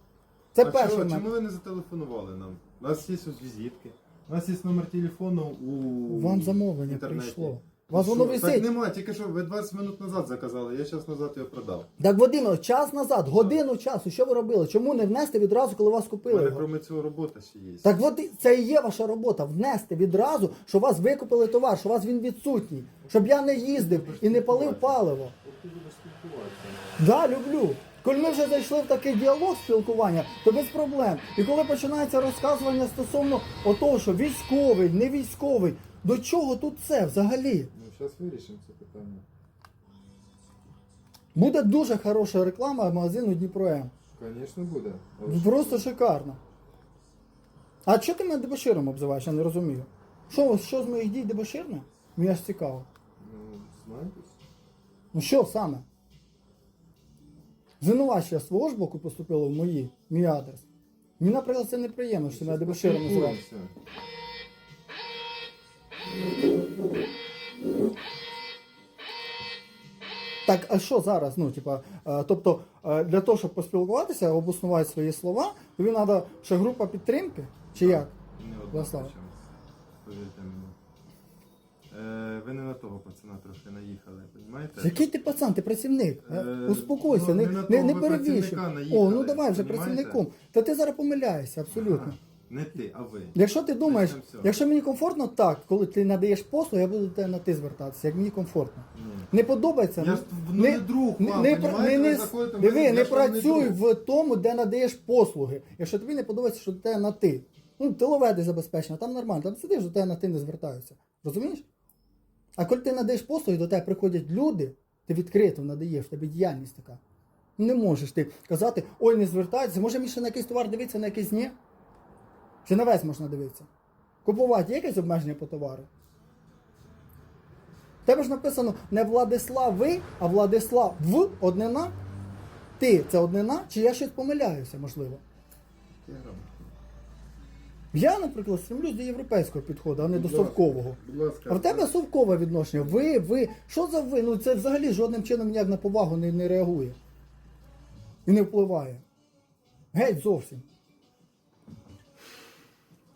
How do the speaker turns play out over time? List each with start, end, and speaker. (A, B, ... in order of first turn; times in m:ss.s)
0:00.5-0:01.2 A
0:00.6-0:11.9 B
0:06.1-0:08.7 A
0:12.0-0:16.6 A
0:16.3-0:17.9 B
0:17.8-0:25.3 A
0:23.0-0:27.0 B
0:27.0-0:37.7 A
0:37.7-0:39.2 B
0:41.3-0:43.9 A
0:44.1-0:45.8 B
0:45.2-0:46.4 A
0:47.8-0:52.9 A
0:53.2-0:54.4 B
0:55.1-0:55.8 A
0:57.8-1:00.6 A
1:01.2-1:03.4 A
1:02.3-1:03.7 B
1:10.4-1:18.1 A
1:17.7-1:19.4 B
1:18.7-1:19.1 A
1:20.0-1:20.8 B
1:21.9-1:25.1 B
1:24.8-1:32.2 A
1:26.2-1:30.2 B
1:31.7-1:34.6 B
1:33.3-1:51.6 A
1:38.9-1:39.3 B
1:40.0-1:43.8 B
1:52.6-1:57.0 A
1:57.6-2:01.5 A
2:02.6-2:03.7 A
2:04.2-2:05.9 A
2:08.0-2:11.9 A
2:12.8-2:15.2 A
2:16.0-2:16.7 B
2:17.9-2:27.0 A
2:20.0-2:21.9 B
2:28.2-2:29.0 A
2:29.9-2:30.6 A